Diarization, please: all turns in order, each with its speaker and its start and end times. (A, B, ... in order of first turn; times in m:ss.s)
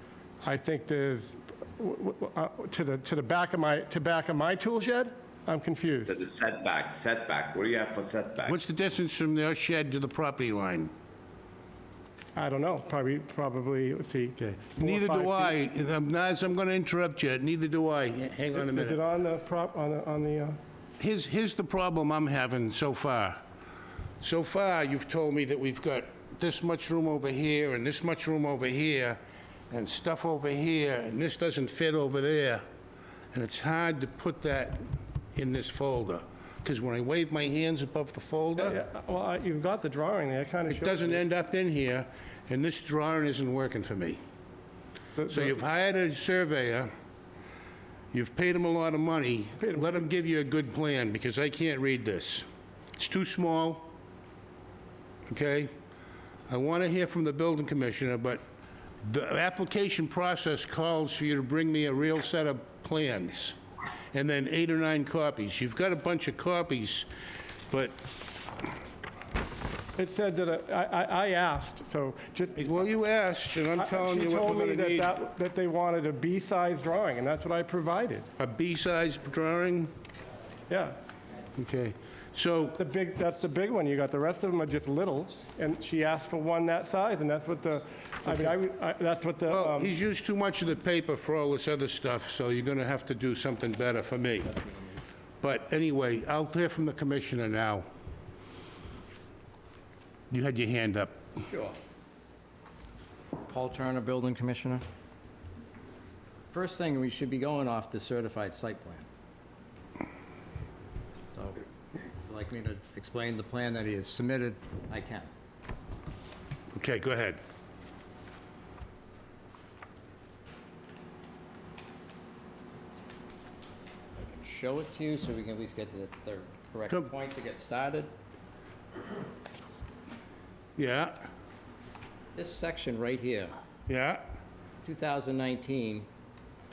0:00.4-0:06.2 A
0:06.1-0:08.6 B
0:08.4-0:10.9 C
0:12.4-0:15.6 A
0:14.4-0:19.0 C
0:18.5-0:20.6 A
0:21.0-0:23.4 C
0:24.2-0:29.2 C
0:29.7-0:32.6 C
0:33.3-0:34.8 C
0:35.4-0:38.8 C
0:38.6-0:41.2 A
0:40.7-0:44.2 C
0:45.2-0:45.5 A
0:45.3-0:46.9 C
0:48.1-0:52.4 C
0:49.6-0:49.9 A
0:53.0-0:53.9 C
0:55.3-0:55.7 C
0:56.5-0:58.4 C
0:59.0-1:03.6 C
1:04.1-1:07.1 C
1:07.7-1:08.0 C
1:10.0-1:12.7 A
1:12.6-1:15.2 C
1:13.8-1:18.3 A
1:18.4-1:19.9 C
1:20.7-1:21.0 A
1:21.6-1:22.8 C
1:22.7-1:29.9 A
1:28.2-1:28.6 C
1:29.5-1:34.5 C
1:35.4-1:37.9 C
1:40.3-1:41.2 C
1:41.5-1:41.8 D
1:43.5-1:44.8 D
1:46.5-1:49.1 D
1:51.3-1:51.7 D
1:52.2-1:55.3 D
1:56.7-1:57.4 C
2:04.2-2:08.1 D
2:10.8-2:11.3 C
2:12.4-2:13.6 D
2:13.9-2:14.2 C
2:14.8-2:16.1 D